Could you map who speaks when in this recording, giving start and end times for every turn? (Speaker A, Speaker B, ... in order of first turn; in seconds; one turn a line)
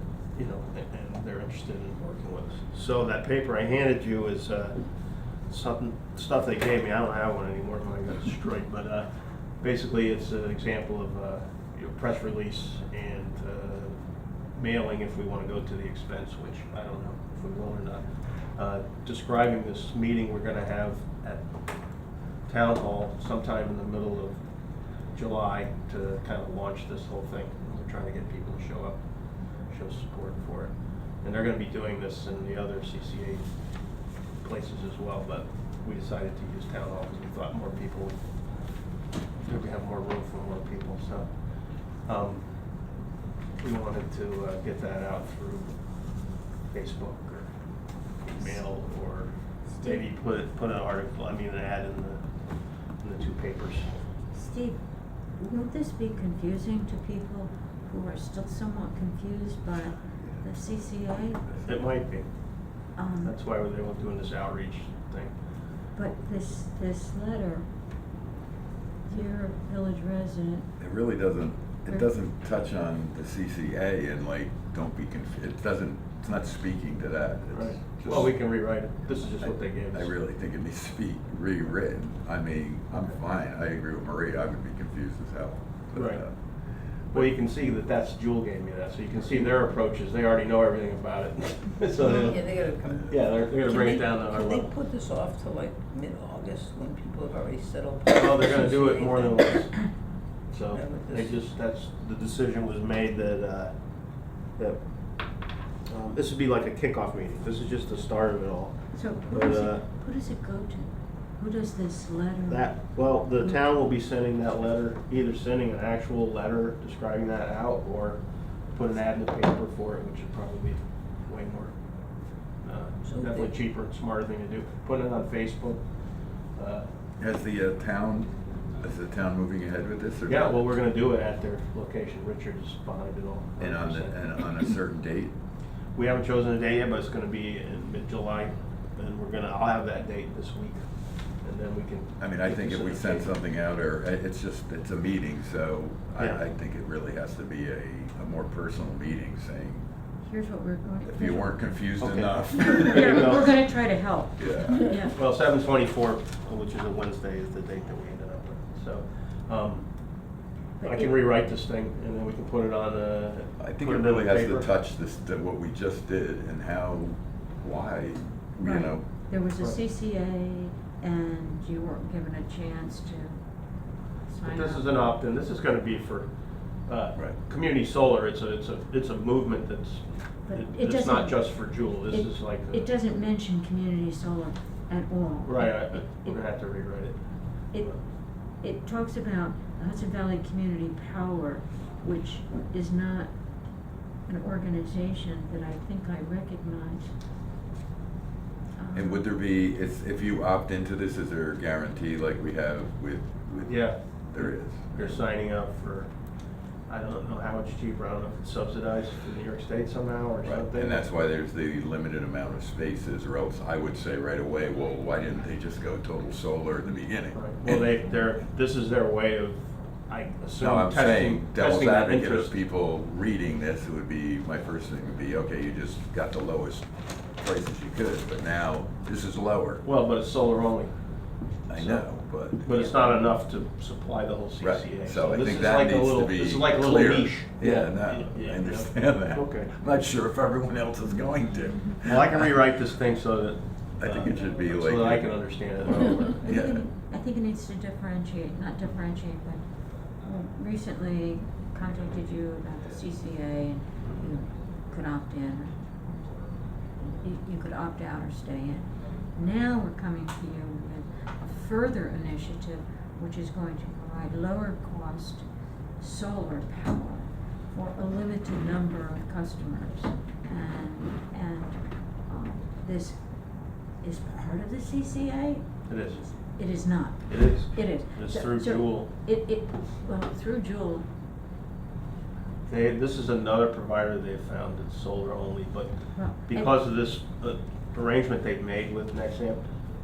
Speaker A: 0.3-14.0
Speaker A: 14.5-21.8
Speaker A: 22.4-24.4
Speaker A: 25.1-29.0
Speaker A: 29.6-33.5
Speaker A: 34.4-38.2
Speaker A: 39.4-42.5
Speaker A: 43.6-47.5
Speaker A: 48.2-54.0
Speaker B: 49.7-50.1
Speaker B: 54.3-54.8
Speaker B: 55.4-61.5
Speaker A: 61.6-65.4
Speaker B: 63.0-63.3
Speaker B: 65.9-67.7
Speaker B: 69.0-70.7
Speaker C: 70.8-78.3
Speaker A: 77.5-80.1
Speaker C: 79.4-86.3
Speaker A: 85.9-86.2
Speaker A: 87.1-94.7
Speaker D: 92.0-99.6
Speaker A: 98.1-99.9
Speaker A: 100.5-109.8
Speaker D: 100.7-101.3
Speaker B: 108.9-113.6
Speaker A: 112.5-121.8
Speaker A: 122.6-126.9
Speaker D: 123.0-123.5
Speaker C: 127.2-130.5
Speaker A: 130.3-134.4
Speaker C: 133.6-135.3
Speaker A: 135.9-143.3
Speaker C: 142.2-149.8
Speaker A: 146.2-146.4
Speaker B: 150.2-151.7
Speaker C: 151.0-153.4
Speaker A: 152.0-153.5
Speaker B: 152.8-155.2
Speaker C: 154.4-154.8
Speaker A: 155.0-159.9
Speaker B: 160.8-161.1
Speaker A: 160.8-164.7
Speaker C: 163.6-169.1
Speaker B: 168.6-173.4
Speaker B: 174.2-174.9
Speaker A: 174.4-182.9
Speaker B: 180.4-186.4
Speaker A: 185.4-188.0
Speaker B: 187.7-188.0
Speaker B: 188.6-193.3
Speaker B: 194.3-197.1
Speaker B: 198.8-199.3
Speaker C: 198.9-205.2
Speaker A: 203.7-206.1
Speaker A: 206.9-211.0
Speaker C: 210.4-217.9
Speaker A: 217.3-222.5
Speaker C: 220.6-229.8
Speaker A: 229.8-230.9
Speaker C: 231.7-232.8
Speaker A: 231.7-232.1
Speaker A: 232.6-239.7
Speaker C: 234.6-242.5
Speaker A: 242.0-246.4
Speaker C: 244.0-245.4
Speaker C: 246.4-246.8
Speaker B: 246.4-249.6
Speaker B: 250.2-255.7
Speaker B: 257.2-265.4
Speaker B: 266.0-273.2
Speaker B: 274.0-275.9
Speaker A: 275.9-276.3
Speaker B: 276.5-281.1
Speaker A: 277.3-279.1
Speaker A: 282.7-289.7
Speaker B: 286.1-286.7